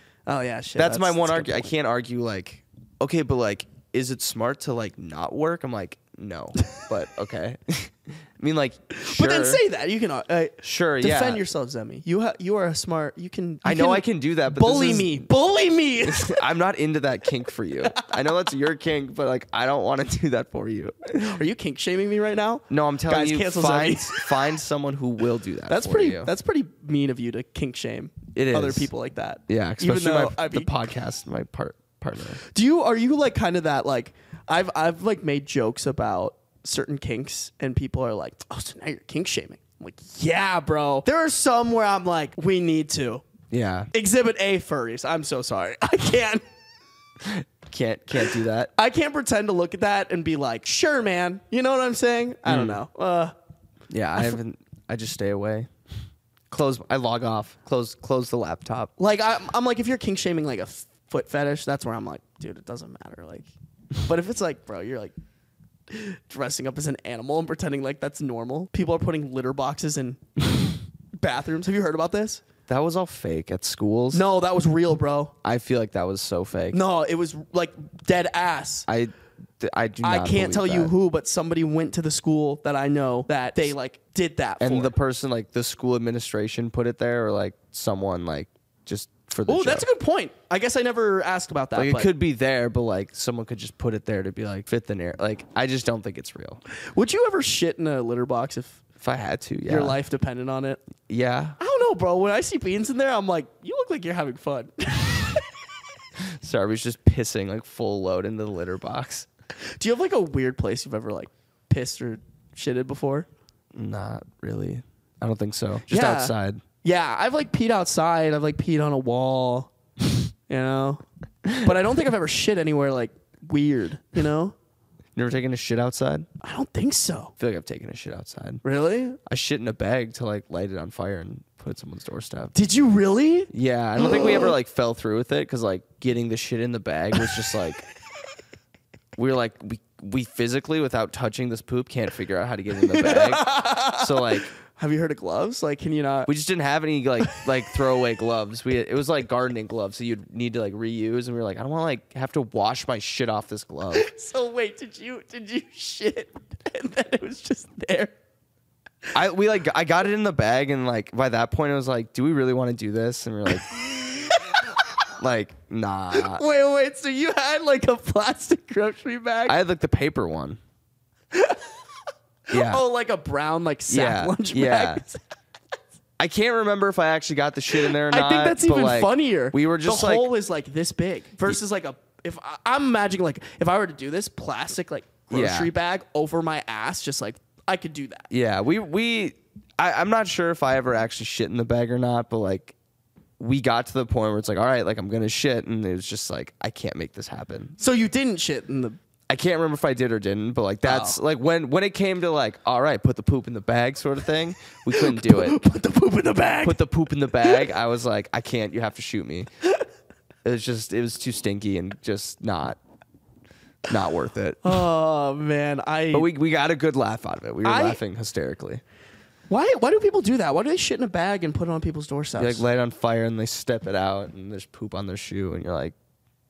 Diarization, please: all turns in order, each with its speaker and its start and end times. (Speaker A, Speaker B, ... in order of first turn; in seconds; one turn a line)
Speaker A: 0.3-1.7
Speaker B: 0.8-9.6
Speaker A: 8.9-16.4
Speaker B: 10.6-11.4
Speaker B: 13.6-15.3
Speaker B: 16.0-21.4
Speaker A: 17.8-18.1
Speaker A: 21.1-24.3
Speaker B: 22.7-26.3
Speaker A: 25.7-30.8
Speaker B: 28.4-28.9
Speaker B: 29.5-32.4
Speaker A: 32.4-43.2
Speaker B: 43.5-43.9
Speaker A: 43.9-46.4
Speaker B: 47.2-48.7
Speaker A: 48.8-53.3
Speaker B: 52.5-52.8
Speaker B: 53.9-55.7
Speaker B: 56.5-58.9
Speaker A: 59.0-63.5
Speaker A: 64.0-65.1
Speaker A: 65.9-70.4
Speaker A: 71.2-72.4
Speaker B: 72.7-74.3
Speaker A: 74.1-75.3
Speaker B: 75.4-76.8
Speaker A: 76.7-78.9
Speaker B: 78.9-80.9
Speaker A: 80.0-84.9
Speaker B: 84.6-89.9
Speaker A: 89.5-92.1
Speaker B: 91.8-96.6
Speaker A: 96.9-98.8
Speaker B: 99.0-100.0
Speaker A: 99.7-100.8
Speaker B: 101.1-101.6
Speaker A: 101.6-105.5
Speaker B: 106.2-109.3
Speaker A: 109.8-113.3
Speaker B: 113.7-116.6
Speaker A: 115.9-119.7
Speaker A: 120.5-121.0
Speaker A: 121.6-124.5
Speaker B: 125.1-126.3
Speaker A: 126.4-127.3
Speaker B: 127.4-128.6
Speaker A: 128.6-129.2
Speaker B: 129.2-132.5
Speaker A: 132.5-134.5
Speaker B: 133.5-137.8
Speaker B: 139.2-144.5
Speaker A: 142.8-146.3
Speaker B: 146.2-154.1
Speaker A: 153.9-158.1
Speaker B: 159.1-163.8
Speaker A: 163.7-164.4
Speaker B: 165.2-166.4
Speaker A: 166.1-169.6
Speaker B: 169.5-170.6
Speaker A: 171.3-171.8
Speaker A: 172.5-175.2
Speaker B: 172.5-172.8
Speaker B: 173.9-175.0
Speaker B: 176.2-180.3
Speaker A: 177.8-188.3
Speaker B: 185.3-185.7
Speaker B: 188.3-192.8
Speaker B: 193.4-197.8
Speaker A: 197.8-199.0
Speaker B: 199.3-205.6
Speaker A: 200.8-201.2
Speaker A: 204.9-206.8
Speaker B: 206.6-209.5
Speaker B: 210.4-212.8
Speaker B: 213.9-214.8
Speaker A: 214.6-216.3
Speaker B: 216.1-218.8
Speaker A: 217.6-218.0
Speaker A: 219.5-222.6
Speaker B: 222.4-225.9